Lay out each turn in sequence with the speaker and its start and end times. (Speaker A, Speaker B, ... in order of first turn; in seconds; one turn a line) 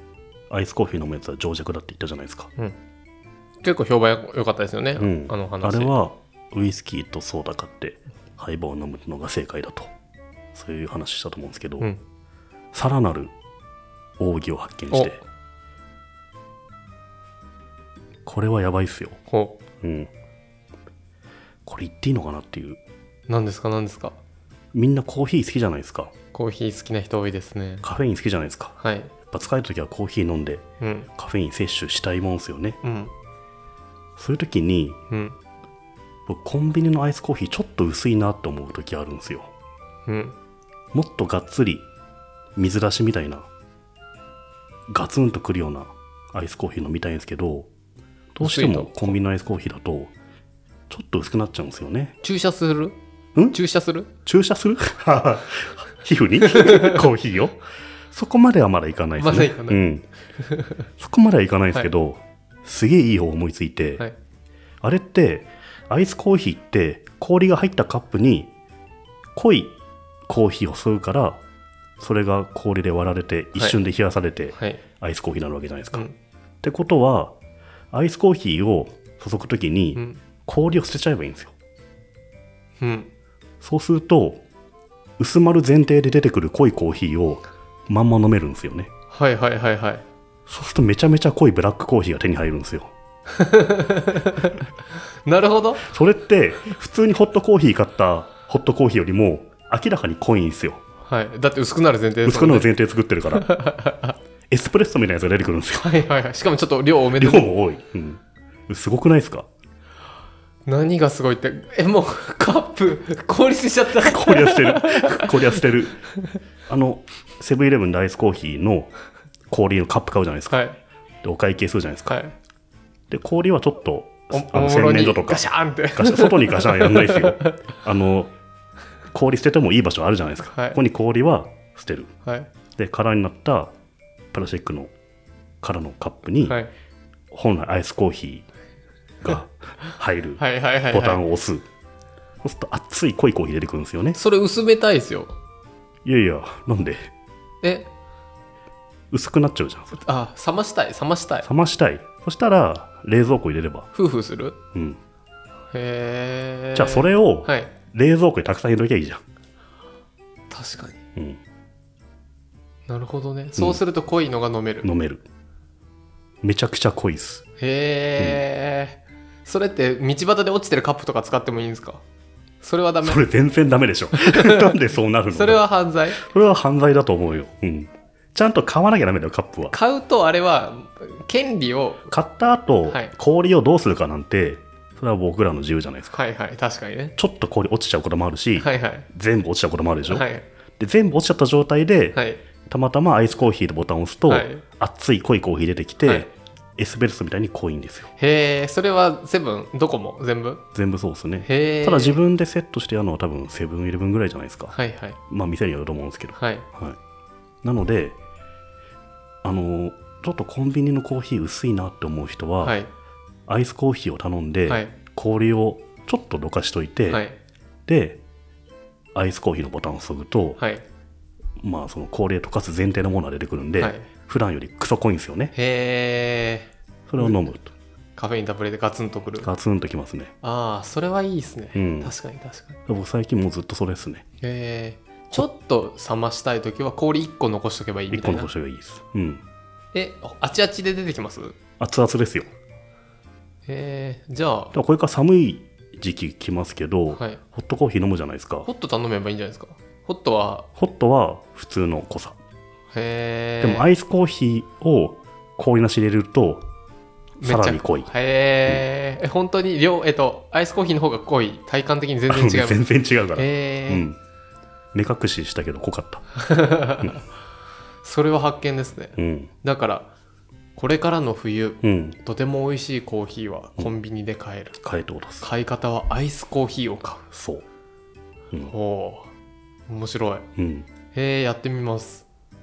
Speaker A: 0.5-2.5
Speaker B: 3.6-5.9
Speaker A: 5.0-9.9
Speaker A: 10.5-11.9
Speaker A: 12.7-13.3
Speaker A: 14.2-15.2
Speaker B: 14.9-15.2
Speaker A: 18.2-19.2
Speaker B: 19.3-19.6
Speaker A: 19.8-20.1
Speaker A: 21.6-22.8
Speaker B: 23.3-24.2
Speaker A: 24.7-26.1
Speaker B: 26.3-27.8
Speaker A: 27.8-28.8
Speaker B: 28.8-29.1
Speaker A: 29.3-30.6
Speaker B: 30.8-31.1
Speaker A: 31.1-32.8
Speaker B: 32.8-33.1
Speaker A: 34.2-35.0
Speaker B: 35.1-35.4
Speaker A: 36.3-39.5
Speaker B: 40.1-40.4
Speaker A: 40.9-41.9
Speaker A: 42.6-43.5
Speaker A: 44.9-47.7
Speaker A: 48.3-50.1
Speaker B: 48.4-49.1
Speaker A: 50.9-52.1
Speaker B: 52.2-53.0
Speaker B: 53.5-54.1
Speaker A: 54.2-57.6
Speaker B: 56.6-56.9
Speaker A: 58.1-60.1
Speaker B: 59.2-59.8
Speaker B: 60.4-60.8
Speaker A: 60.9-64.0
Speaker A: 64.8-68.5
Speaker A: 69.3-69.7
Speaker A: 70.3-71.4
Speaker A: 72.0-76.0
Speaker B: 74.5-74.8
Speaker A: 76.6-77.3
Speaker A: 77.9-81.5
Speaker B: 79.9-80.2
Speaker B: 82.8-83.1
Speaker A: 83.6-84.4
Speaker A: 85.2-88.9
Speaker B: 89.1-90.0
Speaker A: 90.5-92.9
Speaker B: 93.3-94.5
Speaker B: 95.2-95.9
Speaker A: 95.8-100.8
Speaker B: 101.0-102.7
Speaker A: 102.2-103.5
Speaker B: 103.3-104.1
Speaker A: 104.5-106.0
Speaker B: 105.8-107.5
Speaker A: 107.2-109.5
Speaker B: 110.7-115.6
Speaker A: 114.0-116.0
Speaker A: 116.7-118.9
Speaker A: 119.5-120.6
Speaker B: 120.5-120.8
Speaker A: 121.2-122.2
Speaker B: 122.1-122.3
Speaker A: 123.1-128.3
Speaker B: 124.3-127.5
Speaker A: 129.1-132.1
Speaker B: 130.5-130.8
Speaker A: 132.8-133.7
Speaker A: 134.3-134.9
Speaker A: 135.6-136.6
Speaker B: 136.4-136.7
Speaker A: 137.3-138.4
Speaker A: 139.2-141.6
Speaker B: 140.4-141.2
Speaker A: 142.4-144.2
Speaker B: 144.2-145.3
Speaker A: 146.0-147.1
Speaker B: 147.6-147.9
Speaker A: 149.1-150.0
Speaker B: 149.9-151.5
Speaker A: 151.4-153.9
Speaker B: 153.9-154.6
Speaker A: 154.7-155.0
Speaker B: 155.7-157.7
Speaker A: 156.7-159.2
Speaker B: 160.5-161.0
Speaker B: 162.9-164.9
Speaker A: 164.8-165.2
Speaker A: 166.4-167.4
Speaker B: 167.6-172.0
Speaker A: 168.2-168.4
Speaker B: 172.6-173.2
Speaker A: 173.0-179.7
Speaker B: 174.1-174.7
Speaker B: 175.3-176.2
Speaker B: 179.7-182.1
Speaker A: 182.1-186.2
Speaker B: 182.9-183.1
Speaker B: 186.1-187.2
Speaker A: 187.2-190.3
Speaker B: 188.6-189.1
Speaker B: 190.1-190.4
Speaker A: 190.8-198.1
Speaker B: 192.1-192.4
Speaker B: 194.3-194.6
Speaker B: 196.0-196.3
Speaker B: 198.2-200.6
Speaker A: 200.7-204.8
Speaker B: 201.4-202.2
Speaker B: 204.7-205.2
Speaker A: 205.3-207.0
Speaker B: 206.4-206.7
Speaker A: 207.6-208.2
Speaker A: 209.4-212.8
Speaker B: 212.6-212.9
Speaker A: 213.5-217.2
Speaker B: 214.7-214.9
Speaker B: 217.1-217.4
Speaker A: 217.8-218.2
Speaker A: 219.1-220.6
Speaker B: 220.6-220.8
Speaker A: 221.6-225.5
Speaker B: 223.8-224.1
Speaker B: 225.5-227.5
Speaker A: 227.1-227.7
Speaker B: 228.2-229.5
Speaker A: 229.4-230.3
Speaker B: 230.4-232.8
Speaker A: 231.7-232.1
Speaker A: 232.8-234.2
Speaker B: 234.4-238.5
Speaker A: 238.1-239.4
Speaker B: 239.9-241.6
Speaker A: 241.8-242.5
Speaker B: 243.7-244.7
Speaker A: 244.7-248.7
Speaker B: 247.1-247.4
Speaker B: 248.6-250.7
Speaker A: 250.7-252.4
Speaker B: 252.9-253.9
Speaker A: 253.6-256.7
Speaker A: 257.4-258.1
Speaker B: 257.4-262.8
Speaker A: 262.3-264.2
Speaker B: 263.3-264.0
Speaker A: 264.9-266.3
Speaker B: 266.4-267.2
Speaker B: 268.0-270.1
Speaker A: 269.1-269.5
Speaker B: 270.8-274.8
Speaker A: 271.8-272.2
Speaker A: 274.8-275.5
Speaker B: 275.4-277.2
Speaker A: 277.3-277.6
Speaker B: 278.7-279.3
Speaker B: 279.9-280.5
Speaker A: 280.6-280.9
Speaker B: 281.1-282.2